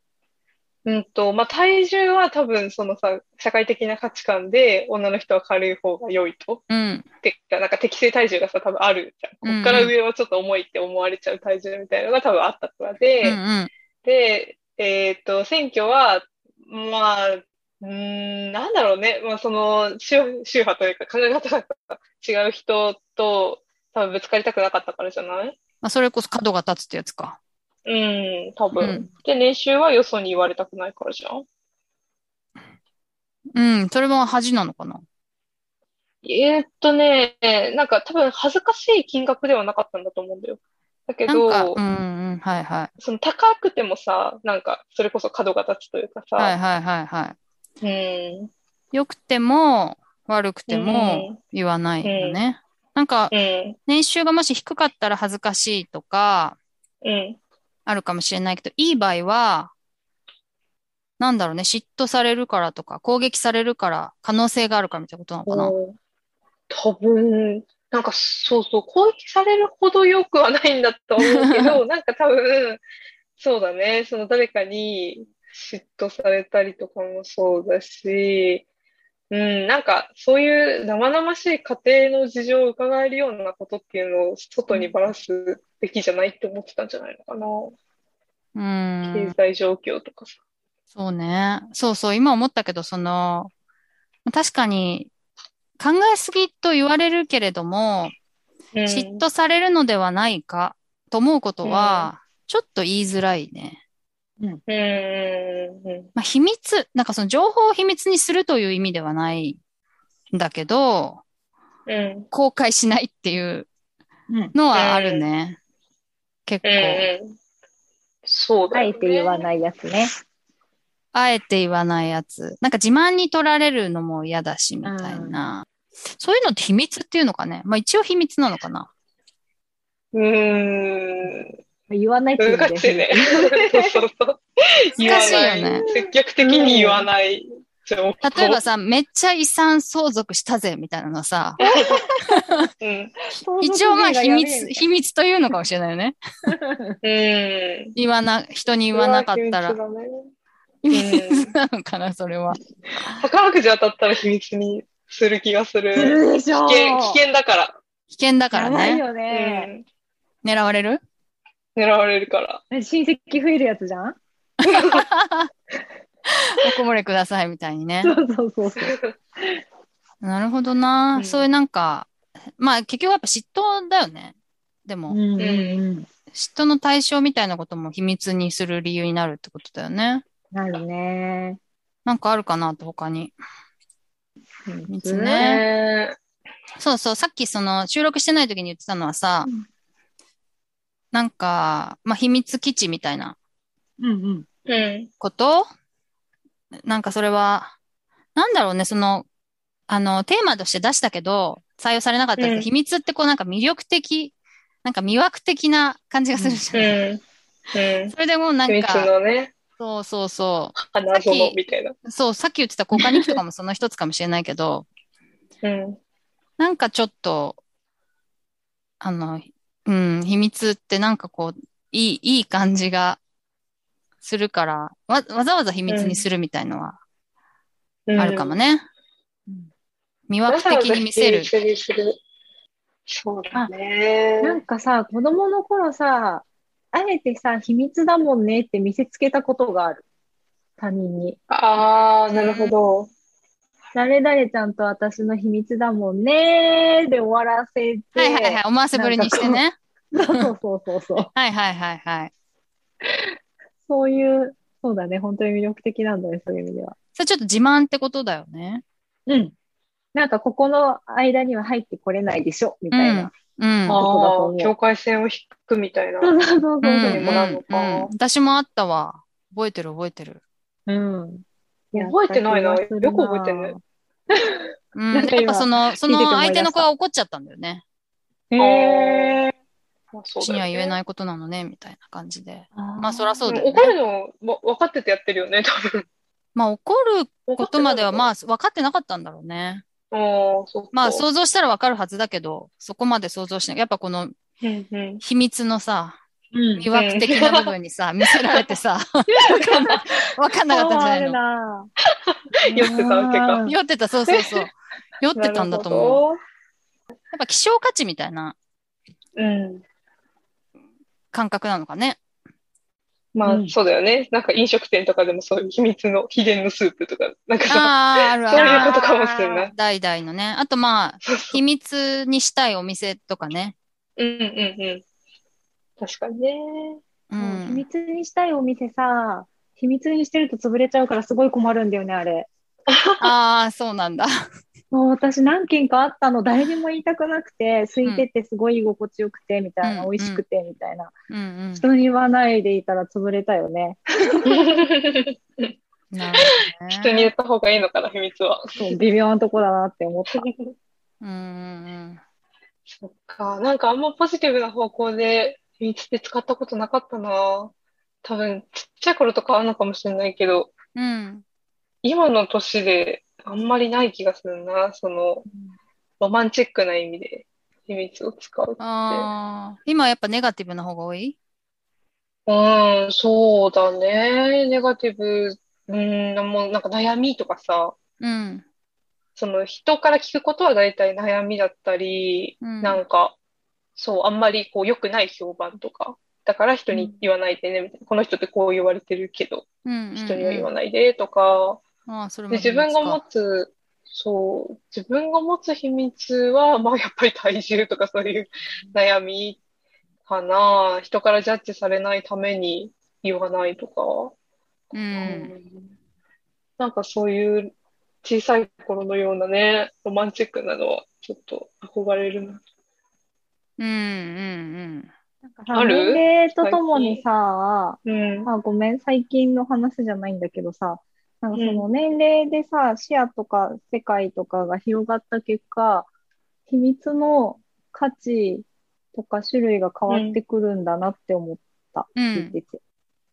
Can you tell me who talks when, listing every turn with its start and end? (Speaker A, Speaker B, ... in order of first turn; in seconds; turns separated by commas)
Speaker A: 0.8-6.6, Speaker B: 6.7-7.0, Speaker A: 7.2-13.4, Speaker B: 9.4-9.9, Speaker B: 13.2-13.7, Speaker A: 14.0-25.6, Speaker B: 25.8-27.4, Speaker A: 27.9-31.4, Speaker B: 28.8-29.1, Speaker B: 33.5-35.0, Speaker A: 36.2-41.8, Speaker B: 41.3-42.9, Speaker A: 43.0-46.5, Speaker B: 46.4-47.4, Speaker A: 47.8-48.5, Speaker B: 48.9-53.3, Speaker A: 50.7-51.4, Speaker A: 52.0-52.4, Speaker A: 53.3-53.8, Speaker B: 53.9-56.6, Speaker A: 57.0-57.4, Speaker B: 57.9-59.7, Speaker B: 61.2-65.7, Speaker A: 65.5-66.0, Speaker A: 66.7-72.8, Speaker B: 71.2-71.8, Speaker A: 73.4-78.6, Speaker A: 79.3-87.7, Speaker B: 88.5-89.3, Speaker A: 89.1-90.3, Speaker B: 90.9-93.5, Speaker B: 94.2-95.1, Speaker B: 95.8-98.1, Speaker A: 98.8-99.2, Speaker B: 98.8-103.8, Speaker A: 101.6-102.1, Speaker A: 104.7-106.1, Speaker B: 106.2-109.6, Speaker B: 110.3-111.2, Speaker A: 111.9-112.3, Speaker B: 112.3-113.7, Speaker B: 114.5-115.6, Speaker A: 114.7-115.3, Speaker B: 116.5-117.1, Speaker A: 116.6-117.4, Speaker A: 118.2-119.5, Speaker C: 118.7-120.1, Speaker B: 121.1-125.7, Speaker C: 124.8-125.3, Speaker B: 126.2-128.9, Speaker A: 130.1-131.5, Speaker C: 131.9-134.0, Speaker A: 132.4-138.6, Speaker C: 135.0-137.1, Speaker B: 135.0-135.8, Speaker B: 138.2-141.6, Speaker C: 141.6-142.3, Speaker A: 141.6-142.0, Speaker B: 142.3-142.7, Speaker A: 142.8-143.1, Speaker C: 143.3-144.8, Speaker B: 143.6-146.2, Speaker C: 146.5-147.0, Speaker A: 147.0-147.9, Speaker B: 147.9-149.8, Speaker A: 148.9-150.3, Speaker B: 150.8-152.6, Speaker A: 150.9-151.5, Speaker A: 153.2-157.8, Speaker C: 155.9-157.2, Speaker B: 158.1-159.0, Speaker C: 158.5-159.7, Speaker A: 159.3-159.8, Speaker B: 160.4-161.0, Speaker A: 161.8-162.6, Speaker C: 162.7-164.2, Speaker B: 164.6-165.5, Speaker A: 164.7-165.0, Speaker B: 166.3-168.2, Speaker C: 168.0-169.6, Speaker A: 168.8-169.1, Speaker B: 170.2-175.2, Speaker A: 171.1-171.5, Speaker C: 175.1-176.1, Speaker A: 175.4-175.8, Speaker B: 176.3-180.2, Speaker C: 180.5-181.6, Speaker B: 182.0-183.3, Speaker C: 184.7-185.4, Speaker B: 184.9-185.6, Speaker A: 185.4-186.1, Speaker B: 186.8-189.5, Speaker B: 191.1-193.3, Speaker C: 194.0-194.4, Speaker A: 194.7-195.1, Speaker B: 195.2-195.7, Speaker B: 196.9-197.7, Speaker B: 198.3-199.2, Speaker B: 199.9-206.9, Speaker A: 202.4-202.7, Speaker C: 206.3-206.6, Speaker A: 206.7-207.2, Speaker A: 207.7-208.1, Speaker B: 208.1-209.1, Speaker A: 208.7-209.5, Speaker B: 209.8-214.8, Speaker A: 210.8-211.9, Speaker A: 212.9-213.2, Speaker A: 215.6-216.0, Speaker B: 216.6-217.6, Speaker B: 219.0-223.2, Speaker B: 224.2-227.0, Speaker A: 225.9-226.2, Speaker A: 228.1-228.6, Speaker B: 228.1-228.8, Speaker B: 230.3-231.5, Speaker A: 230.5-232.2, Speaker A: 233.1-234.6, Speaker C: 234.4-240.0, Speaker C: 240.8-241.4, Speaker A: 241.5-243.1, Speaker B: 242.3-242.7, Speaker C: 243.9-249.6, Speaker B: 248.2-250.5, Speaker C: 250.1-251.3, Speaker B: 251.2-252.3, Speaker C: 253.8-256.9, Speaker B: 257.1-258.8, Speaker C: 259.3-259.5, Speaker C: 260.1-263.3, Speaker B: 262.9-264.0, Speaker A: 263.9-266.3, Speaker C: 264.0-264.7, Speaker C: 266.2-267.4, Speaker B: 266.8-270.4, Speaker A: 267.0-268.1, Speaker C: 270.9-271.4, Speaker A: 271.9-273.8, Speaker C: 271.9-273.8, Speaker C: 274.3-276.9, Speaker B: 274.9-277.8, Speaker C: 278.5-279.5, Speaker A: 278.6-279.4, Speaker A: 280.1-281.0, Speaker B: 280.4-283.9, Speaker C: 282.7-283.5, Speaker A: 283.5-286.0, Speaker B: 286.5-289.8, Speaker A: 287.5-288.3, Speaker A: 290.1-291.2, Speaker B: 290.9-294.3, Speaker A: 294.6-295.2, Speaker B: 295.2-296.2, Speaker C: 296.5-296.9, Speaker B: 296.8-301.4, Speaker A: 296.9-297.6, Speaker A: 299.3-300.0, Speaker C: 300.7-301.9, Speaker C: 302.6-303.8, Speaker A: 302.7-303.6, Speaker B: 303.6-306.2, Speaker A: 304.3-304.6, Speaker A: 305.4-306.4, Speaker B: 307.3-308.6, Speaker A: 309.4-309.8, Speaker B: 311.3-312.2, Speaker A: 313.3-319.7, Speaker C: 313.4-313.8, Speaker B: 317.7-323.7, Speaker C: 318.5-319.0, Speaker A: 321.3-321.6, Speaker A: 324.2-325.0, Speaker A: 326.0-327.0, Speaker B: 327.3-327.8, Speaker C: 327.4-332.5, Speaker A: 332.9-333.3, Speaker B: 333.2-334.3, Speaker C: 334.9-341.1, Speaker B: 339.8-340.4, Speaker B: 341.3-341.9, Speaker C: 341.7-344.4, Speaker A: 344.4-345.7, Speaker B: 346.1-347.3, Speaker A: 346.9-348.9, Speaker C: 348.8-350.4, Speaker A: 350.3-350.7, Speaker B: 351.2-352.2, Speaker A: 352.9-357.7, Speaker A: 358.2-360.7, Speaker B: 360.9-361.4, Speaker A: 362.0-365.4, Speaker C: 365.5-365.8, Speaker A: 366.2-369.3, Speaker B: 368.8-371.4, Speaker A: 372.5-377.9, Speaker B: 378.2-378.6, Speaker A: 379.4-383.3, Speaker B: 382.6-383.0, Speaker A: 384.0-391.8, Speaker B: 389.8-390.7, Speaker B: 392.1-393.2, Speaker A: 392.5-399.6, Speaker A: 400.2-404.3, Speaker B: 404.9-405.5, Speaker A: 405.1-405.9, Speaker A: 406.8-407.7, Speaker A: 408.2-412.6, Speaker B: 413.8-415.1, Speaker C: 415.4-426.1, Speaker A: 415.7-417.2, Speaker A: 418.0-418.5, Speaker A: 421.5-421.8, Speaker C: 426.7-432.8, Speaker A: 430.1-430.4, Speaker B: 432.1-432.6